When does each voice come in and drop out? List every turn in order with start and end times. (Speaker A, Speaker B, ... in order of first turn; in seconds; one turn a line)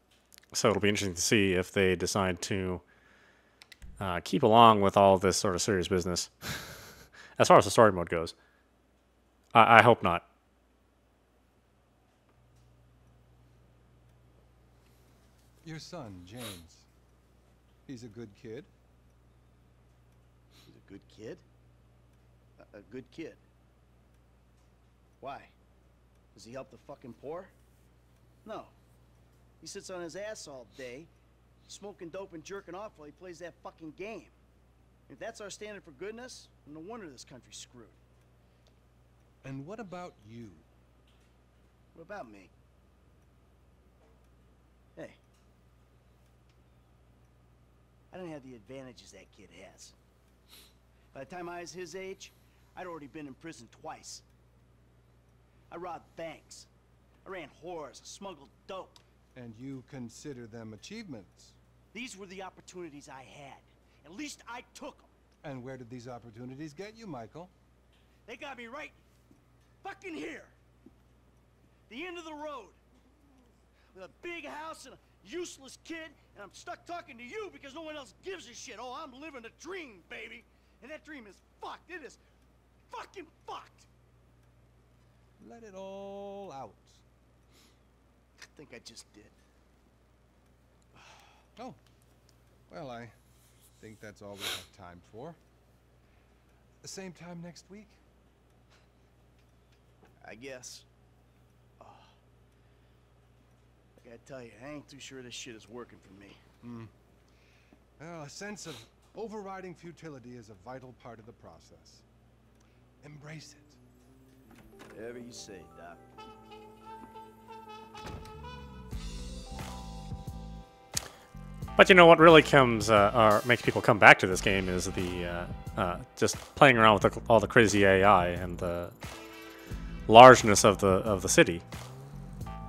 Speaker A: 0.5-2.8
Speaker A: 4.0-8.3
Speaker A: 9.5-10.2
Speaker B: 15.6-16.9
Speaker B: 17.9-18.7
Speaker C: 20.6-21.4
Speaker C: 22.6-23.4
Speaker C: 25.2-25.5
Speaker C: 26.4-27.5
Speaker C: 28.4-28.8
Speaker C: 29.6-31.1
Speaker C: 31.7-34.4
Speaker C: 35.1-38.0
Speaker B: 39.4-40.7
Speaker C: 42.0-42.5
Speaker C: 48.1-50.0
Speaker C: 51.1-54.2
Speaker C: 55.7-56.7
Speaker C: 57.2-59.0
Speaker B: 59.4-61.6
Speaker C: 61.9-65.1
Speaker B: 65.4-67.5
Speaker C: 68.3-69.0
Speaker C: 69.8-70.5
Speaker C: 71.9-72.8
Speaker C: 73.9-82.2
Speaker C: 82.9-83.9
Speaker B: 85.4-87.0
Speaker C: 88.4-89.4
Speaker B: 92.7-93.2
Speaker B: 93.8-95.4
Speaker B: 96.8-98.0
Speaker C: 100.2-100.9
Speaker C: 101.8-102.2
Speaker C: 104.0-106.4
Speaker B: 106.6-106.9
Speaker B: 108.0-112.0
Speaker B: 113.0-113.8
Speaker C: 114.9-116.0
Speaker A: 121.8-128.9
Speaker A: 130.1-131.6